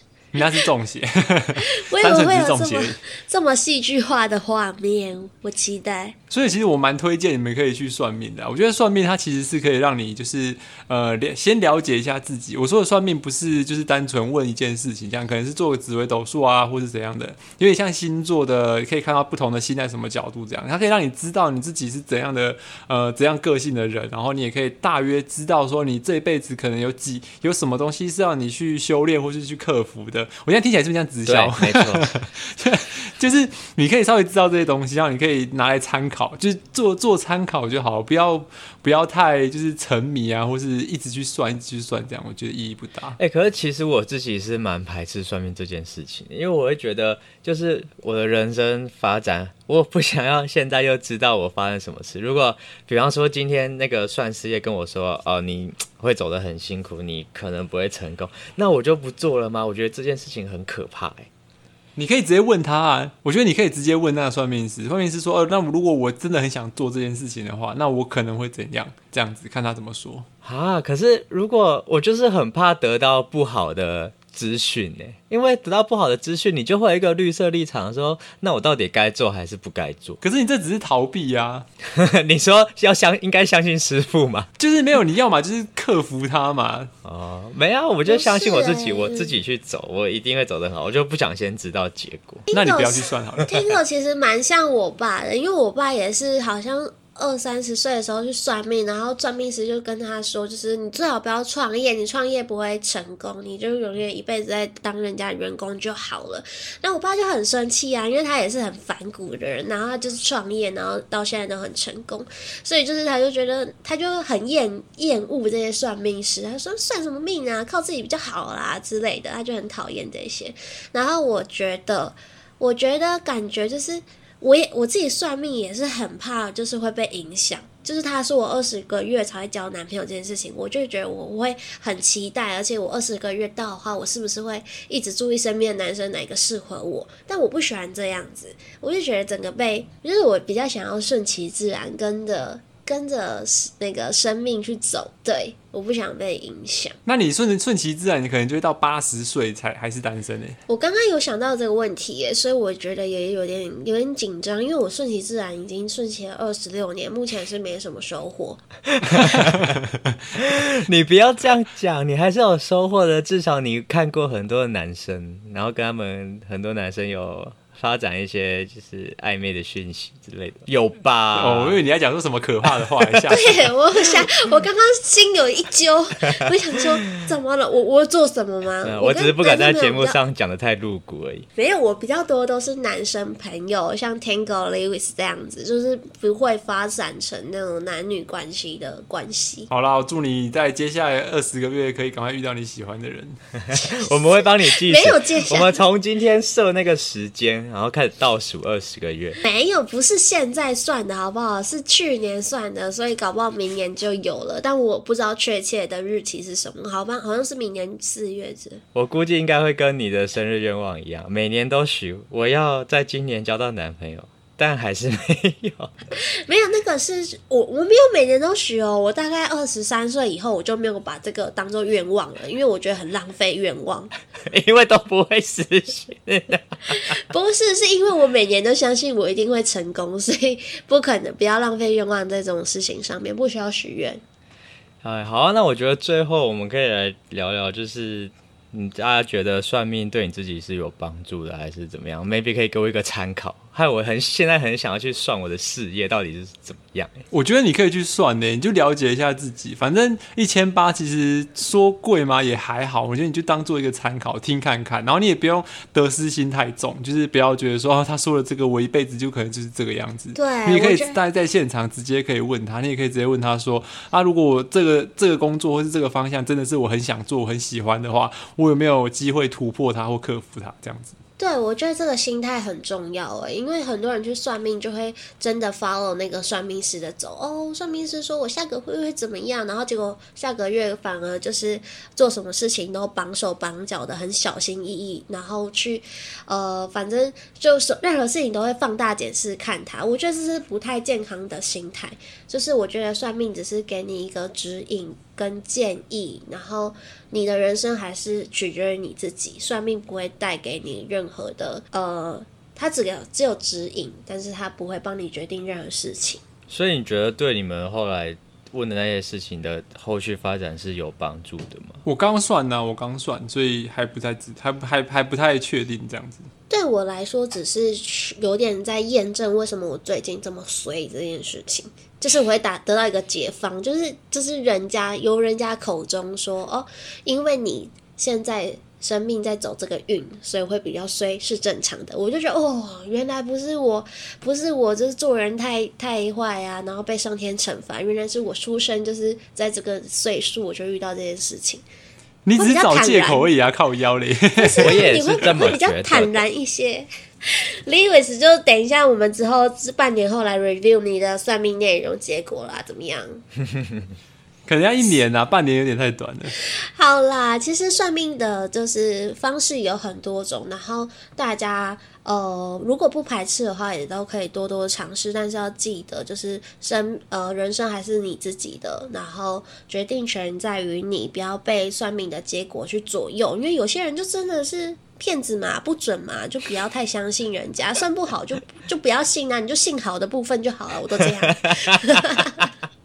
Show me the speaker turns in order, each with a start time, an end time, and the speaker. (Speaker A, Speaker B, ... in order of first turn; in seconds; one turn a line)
Speaker A: 0.3-3.0
Speaker B: 1.6-6.2
Speaker A: 6.3-43.2
Speaker C: 31.2-32.1
Speaker C: 43.2-61.3
Speaker A: 62.0-70.3
Speaker C: 70.4-80.2
Speaker A: 80.2-81.7
Speaker C: 81.8-84.5
Speaker A: 84.6-86.9
Speaker C: 87.0-92.5
Speaker B: 88.0-89.3
Speaker B: 92.5-147.0
Speaker A: 92.5-93.8
Speaker A: 147.1-150.6
Speaker B: 150.7-158.6
Speaker C: 158.9-159.8
Speaker A: 159.1-159.8
Speaker C: 160.4-171.8
Speaker A: 171.3-173.6
Speaker C: 172.8-173.3
Speaker B: 173.3-180.2
Speaker C: 178.8-181.5
Speaker B: 181.6-189.7
Speaker A: 189.7-193.4
Speaker C: 193.6-199.4
Speaker B: 193.8-195.8
Speaker B: 199.4-208.8
Speaker C: 208.9-216.1
Speaker B: 216.2-224.1
Speaker C: 224.4-227.2
Speaker B: 226.9-234.2
Speaker C: 235.0-247.1
Speaker A: 247.3-271.1
Speaker B: 260.3-261.2
Speaker B: 271.4-306.4
Speaker C: 306.7-312.0
Speaker A: 312.0-316.5
Speaker B: 316.7-341.8
Speaker A: 342.4-345.5
Speaker B: 342.6-343.5
Speaker B: 344.6-353.4
Speaker C: 344.8-346.4
Speaker A: 354.7-356.5
Speaker B: 356.9-382.7
Speaker C: 381.4-382.0